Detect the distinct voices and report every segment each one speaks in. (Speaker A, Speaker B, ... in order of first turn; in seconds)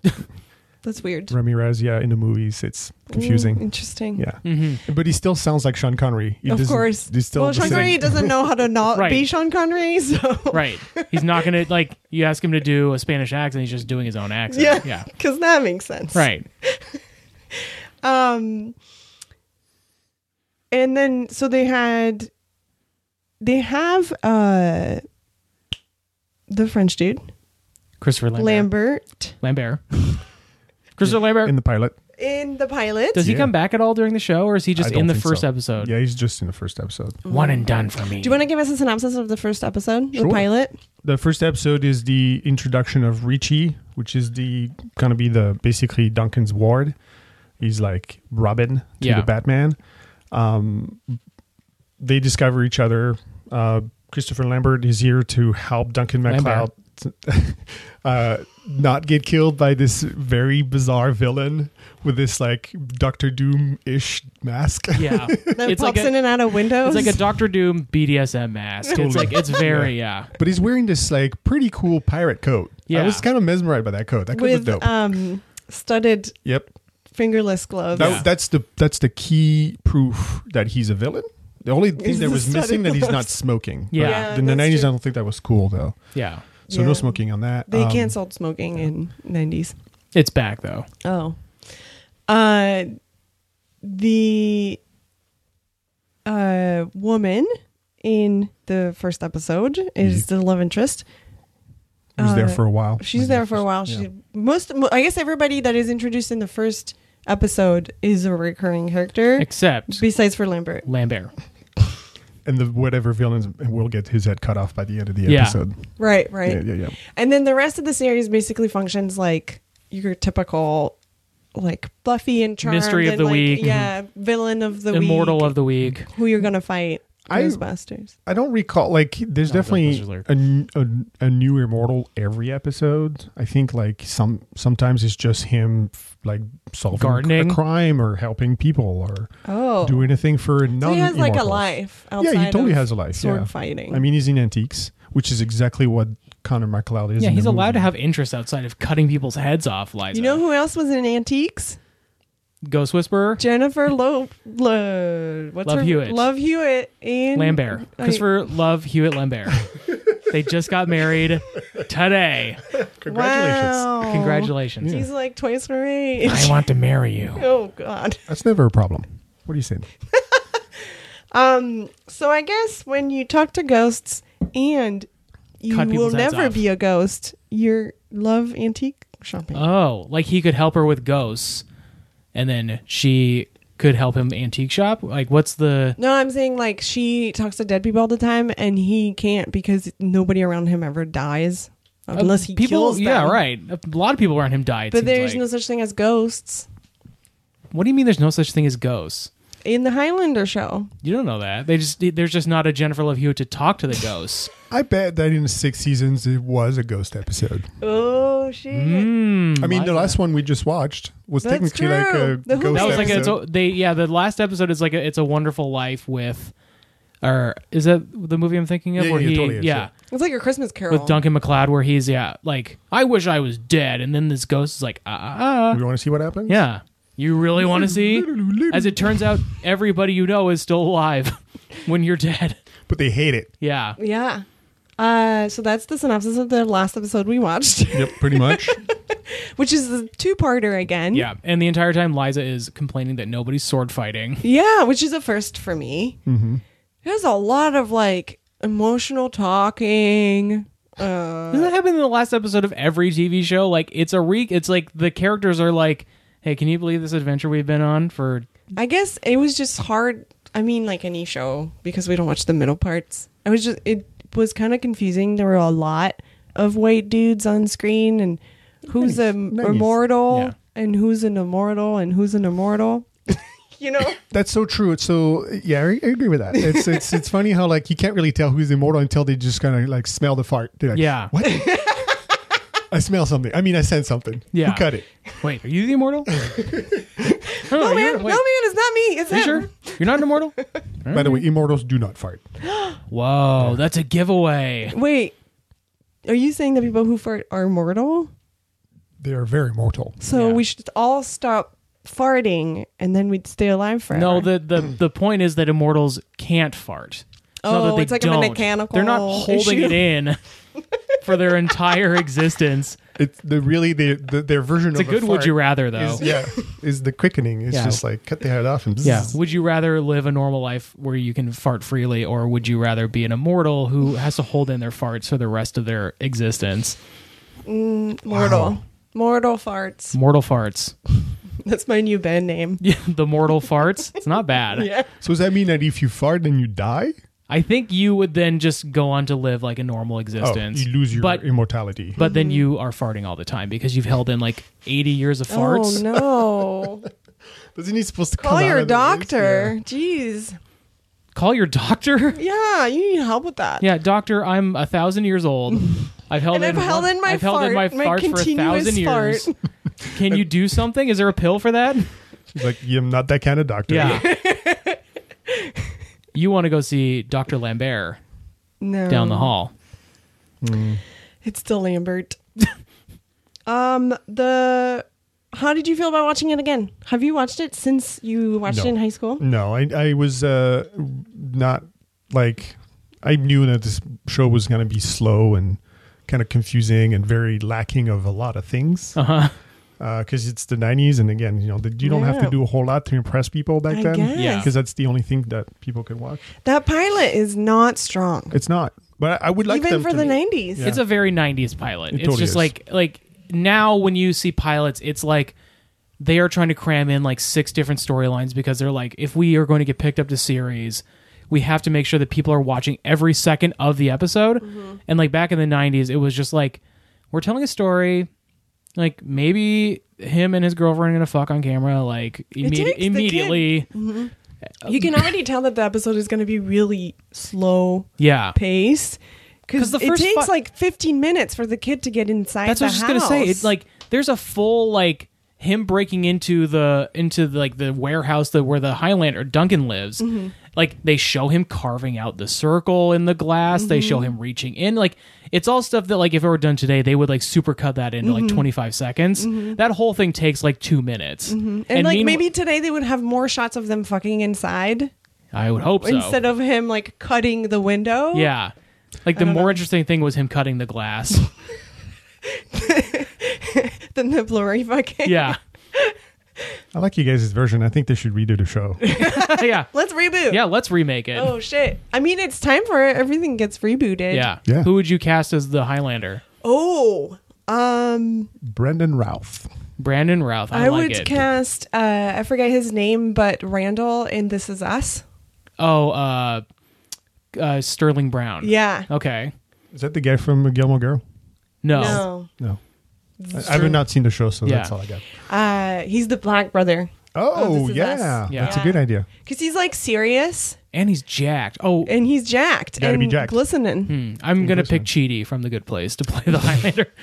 Speaker A: 0.8-1.3, 3.1-4.2, 6.5-11.3, 14.5-17.0, 17.5-18.7, 20.7-22.3, 23.4-25.0, 26.5-27.2, 28.4-29.3, 32.2-33.2, 37.2-40.7, 65.5-67.3, 68.9-69.6, 74.3-76.4, 77.1-78.2, 82.0-83.3, 84.0-84.9, 86.7-89.7, 91.0-91.4, 92.3-93.0, 93.8-94.8, 96.2-97.5, 98.0-101.0, 102.2-110.9, 116.0-121.0, 121.5-128.1, 139.4-140.1, 140.8-144.0, 150.1-151.8, 153.4-158.3, 163.1-166.6, 167.3-168.2, 170.1-170.4, 171.3-175.1, 175.6-179.7, 186.0-193.4, 194.9-196.7, 199.6-200.9, 207.8-209.1, 211.4-213.4, 220.1-221.2, 234.0-234.4, 235.0-241.3, 244.4-246.2, 247.0-251.7, 258.8-274.2, 276.6-277.2, 281.4-282.3, 287.5-290.6, 292.6-293.0, 294.9-295.3, 296.2-298.3, 300.2-304.5, 307.6-310.1, 316.2-316.7, 327.6-330.1, 331.6-332.8, 334.7-335.1, 342.2-342.6, 345.5-347.1, 348.4-350.6, 352.4-353.9, 356.5-359.5, 364.0-365.9, 368.8-369.5, 371.4-372.6, 373.6-379.4, 392.0-392.6, 393.9-394.7, 396.6-398.6, 399.7-400.9, 414.6-415.0, 422.6-424.3, 424.8-433.7, 440.2-440.5, 443.7-444.3, 448.2-448.7, 449.4-449.8, 451.5-455.1, 456.0-458.5, 459.3-459.8, 462.7-466.1, 469.0-470.6, 471.3-474.5, 476.6-478.5, 480.7-485.2, 488.6-489.1, 491.9-492.5, 493.4-494.0, 495.4-500.8, 502.1-504.1
Speaker B: 1.3-8.4, 31.0-31.9, 33.2-33.5, 34.8-37.2, 40.1-40.5, 41.0-47.0, 47.6-49.8, 50.3-51.2, 52.0-65.7, 68.9-75.0, 77.9-86.0, 86.7-88.1, 100.0-100.3, 102.2-104.0, 112.4-116.9, 127.3-127.6, 128.2-139.3, 139.8-141.7, 142.2-147.9, 162.7-163.9, 164.8-165.1, 168.3-169.9, 204.7-207.7, 209.6-213.4, 218.9-219.9, 225.7-226.6, 227.6-229.4, 232.9-233.5, 237.9-238.8, 246.2-246.6, 268.9-269.9, 274.2-282.0, 282.9-285.1, 286.3-287.4, 291.1-292.4, 299.2-300.2, 313.1-319.4, 328.3-328.8, 335.2-337.1, 340.4-342.2, 347.7-349.8, 362.5-364.3, 370.6-371.0, 378.7-389.2, 390.0-396.5, 398.5-401.0, 402.1-402.7, 466.9-469.0, 478.6-479.7, 489.9-491.2, 492.0-492.8, 493.5-495.2, 497.3-499.3, 503.0-503.6, 504.6-505.1
Speaker C: 4.4-4.8, 7.6-8.0, 8.9-9.2, 10.5-15.1, 16.1-16.4, 28.0-28.7, 29.4-30.2, 31.0-31.5, 33.1-35.9, 37.3-38.4, 49.0-49.3, 56.3-56.7, 64.9-70.3, 72.9-73.2, 78.0-78.3, 83.9-84.2, 86.1-86.4, 90.1-90.9, 109.4-110.0, 110.8-111.3, 115.2-115.6, 122.6-123.9, 124.9-126.1, 129.4-130.2, 136.9-137.6, 147.2-150.4, 152.6-153.4, 155.6-156.3, 157.3-159.7, 160.2-162.6, 164.0-164.9, 166.2-167.4, 175.7-176.6, 179.5-181.6, 182.3-186.0, 192.1-195.4, 197.7-199.3, 201.0-204.5, 208.7-210.2, 212.7-216.5, 217.2-219.9, 220.9-225.8, 226.5-232.6, 233.6-234.0, 241.1-244.4, 251.5-258.5, 270.3-270.5, 280.9-281.3, 284.5-284.9, 285.4-286.3, 287.6-288.4, 289.3-291.3, 293.1-294.9, 300.3-300.6, 304.1-310.4, 311.2-313.0, 314.9-316.3, 317.7-318.0, 319.0-327.0, 330.1-330.9, 332.8-334.9, 337.5-341.4, 342.2-346.1, 351.3-352.4, 353.8-359.5, 360.1-362.1, 363.9-364.3, 366.3-368.2, 369.1-369.7, 389.1-389.5, 394.3-394.7, 400.8-405.5, 406.2-416.8, 417.3-418.3, 418.9-423.9, 424.8-425.2, 428.2-428.6, 429.8-430.5, 432.6-452.4, 455.5-456.4, 458.3-458.7, 459.2-461.4, 465.2-465.6, 469.1-469.9, 470.5-471.5, 474.3-476.4, 480.0-481.4, 485.8-486.6, 487.5-489.5, 491.8-492.2, 494.6-494.9, 498.5-498.8, 500.9-502.1, 504.1-507.1